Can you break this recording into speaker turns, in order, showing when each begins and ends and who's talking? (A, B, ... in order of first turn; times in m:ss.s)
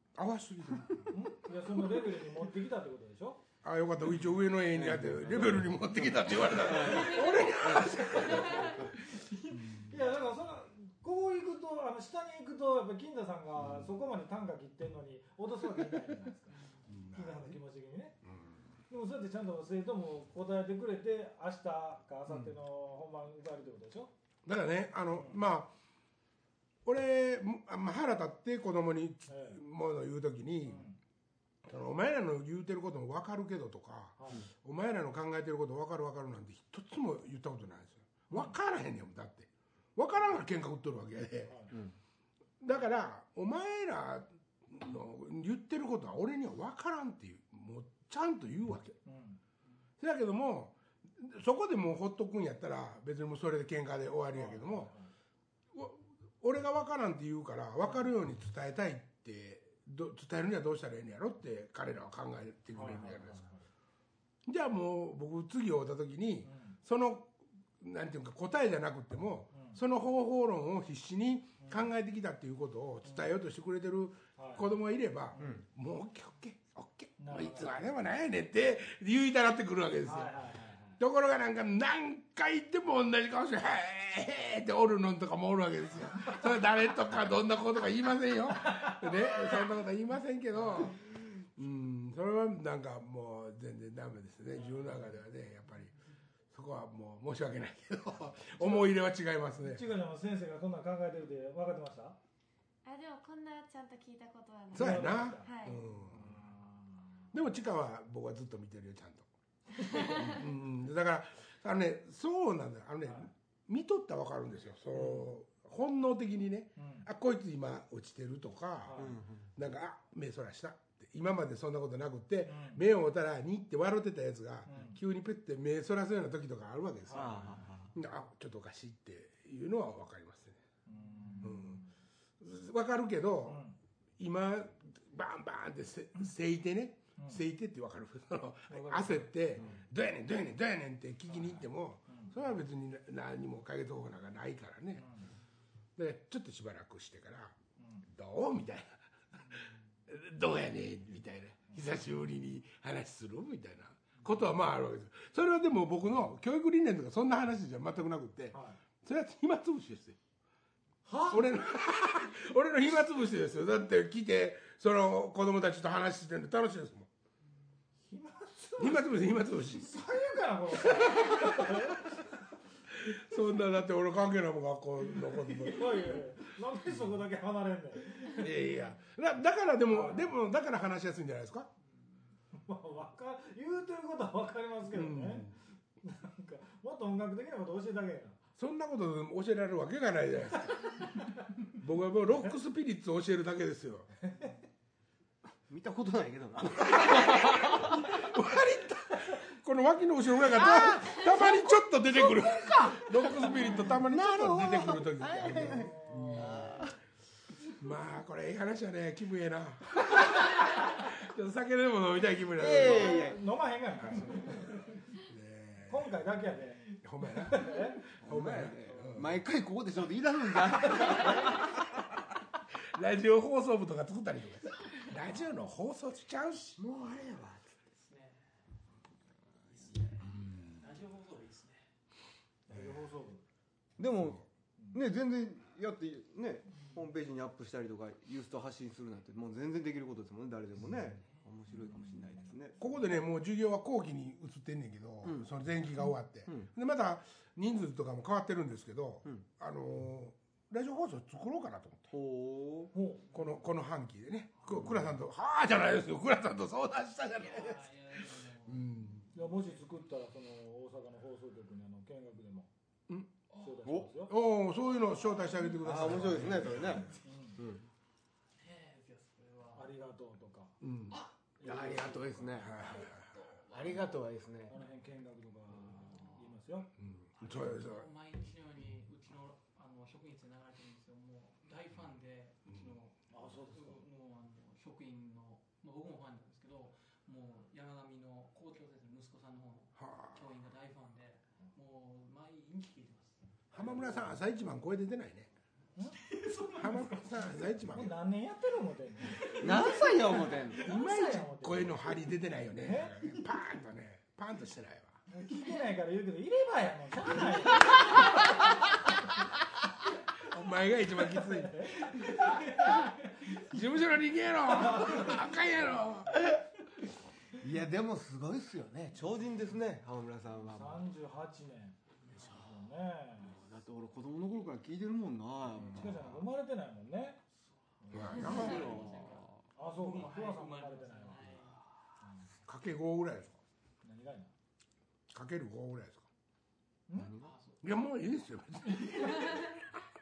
0:00.2-0:01.1 A
0:00.7-0:01.0 B
0:01.1-0:03.4 C
0:03.6-0:08.9 A
0:04.7-0:08.9 B
0:09.6-0:09.9 A
0:09.8-0:18.2 C
0:16.5-0:16.9 D
0:16.9-0:17.6 A
0:18.2-0:18.6 A
0:18.9-0:24.1 C
0:24.4-0:25.7 A
0:25.1-0:25.4 C
0:26.8-0:30.8 A
0:29.3-0:29.6 C
0:30.6-0:31.0 C
0:31.6-0:41.6 A
0:34.2-0:34.4 C
0:38.3-0:38.5 C
0:41.4-0:41.7 C
0:42.6-0:49.0 A
0:49.0-0:49.4 C
0:50.0-0:54.9 A
0:54.3-0:55.1 C
0:55.7-1:03.4 A
1:02.7-1:03.6 C
1:04.4-1:20.4 A
1:06.4-1:06.8 C
1:09.5-1:09.8 C
1:11.6-1:11.8 C
1:13.0-1:13.3 C
1:14.4-1:14.7 C
1:15.3-1:15.6 C
1:15.4-1:15.6 B
1:17.2-1:17.9 C
1:20.0-1:21.0 C
1:21.0-1:35.9 A
1:28.6-1:29.5 C
1:30.5-1:30.9 C
1:34.6-1:35.1 C
1:36.5-1:39.8 A
1:38.6-1:38.9 C
1:39.6-1:42.2 C
1:42.8-1:45.8 E
1:44.7-1:46.4 A
1:44.7-1:47.0 C
1:47.3-1:49.3 A
1:49.9-1:50.3 E
1:50.0-2:10.6 A
1:53.0-1:53.3 C
1:56.8-1:57.1 C
1:58.8-1:59.2 C
1:59.0-1:59.5 B
2:02.4-2:02.8 C
2:04.6-2:05.0 C
2:07.0-2:07.6 C
2:07.1-2:07.9 B
2:10.8-2:11.8 C
2:11.4-2:11.8 A
2:12.4-2:13.6 A
2:13.4-2:13.8 C
2:14.2-2:25.1 A
2:17.2-2:17.4 C
2:18.7-2:19.8 C
2:21.3-2:22.3 C
2:25.0-2:25.3 C
2:26.0-2:27.5 A
2:27.8-2:28.1 C
2:28.1-2:40.2 A
2:38.5-2:38.8 C
2:41.0-2:41.4 C
2:41.3-2:47.1 A
2:48.0-2:52.2 C
2:48.8-2:50.0 A
2:50.9-2:51.9 A
2:52.9-2:56.3 A
2:55.3-2:58.5 C
2:58.2-3:01.7 A
2:59.9-3:00.3 C
3:02.6-3:08.4 C
3:04.9-3:05.5 A
3:08.6-3:11.1 A
3:11.7-3:14.1 A
3:15.7-3:18.1 B
3:17.0-3:26.9 A
3:20.4-3:27.0 B
3:25.5-3:26.8 C
3:27.7-3:33.3 A
3:32.6-3:33.4 B
3:32.7-3:34.9 C
3:34.0-3:34.7 A
3:35.2-3:36.1 A
3:35.9-3:38.0 C
3:37.0-3:39.4 A
3:38.2-3:41.8 B
3:38.9-3:39.2 C
3:42.9-3:46.8 A
3:46.8-3:47.7 B
3:48.0-3:48.5 D
3:49.6-3:51.9 D
3:52.7-3:53.4 C
3:54.0-4:02.8 B
3:54.2-3:54.4 A
4:02.8-4:12.1 A
4:05.2-4:05.5 B
4:12.1-4:12.9 B
4:12.9-4:13.3 C
4:13.3-4:13.6 D
4:13.3-4:19.3 A
4:17.4-4:19.0 D
4:19.3-4:22.7 C
4:23.5-4:24.4 C
4:24.3-4:27.1 A
4:25.0-4:27.1 D
4:25.8-4:27.9 B
4:27.1-4:27.6 C
4:28.6-4:29.9 D
4:29.7-4:30.8 C
4:30.8-4:31.2 A
4:31.1-4:33.2 B
4:31.6-4:32.6 C
4:32.6-4:33.3 A
4:33.0-4:34.2 D
4:33.7-4:34.7 B
4:34.7-4:36.9 C
4:36.0-4:36.5 D
4:37.0-4:38.1 A
4:37.4-4:53.4 D
4:43.3-4:44.0 C
4:50.0-4:50.4 A
4:53.7-4:55.5 A
4:56.0-4:56.2 C
4:56.2-4:57.4 D
4:56.7-4:58.2 A
4:57.9-5:02.0 C
4:59.4-5:00.8 D
4:59.6-5:00.8 B
5:00.8-5:05.2 A
5:02.8-5:03.3 C
5:05.3-5:08.4 C
5:10.4-5:12.0 A
5:11.3-5:12.7 C
5:12.1-5:13.5 D
5:13.5-5:16.4 A
5:17.6-5:21.0 B
5:20.7-5:23.6 C
5:23.5-5:26.5 B
5:25.8-5:27.4 C
5:28.0-5:28.5 C
5:28.1-5:31.8 D
5:28.1-5:29.0 A
5:28.3-5:29.6 B
5:29.8-5:31.4 C
5:32.7-5:33.6 A
5:34.0-5:34.5 C
5:35.3-5:36.3 A
5:37.1-5:37.3 C
5:37.1-5:37.5 B
5:37.4-5:37.8 D
5:37.8-5:39.8 A
5:39.0-5:39.7 D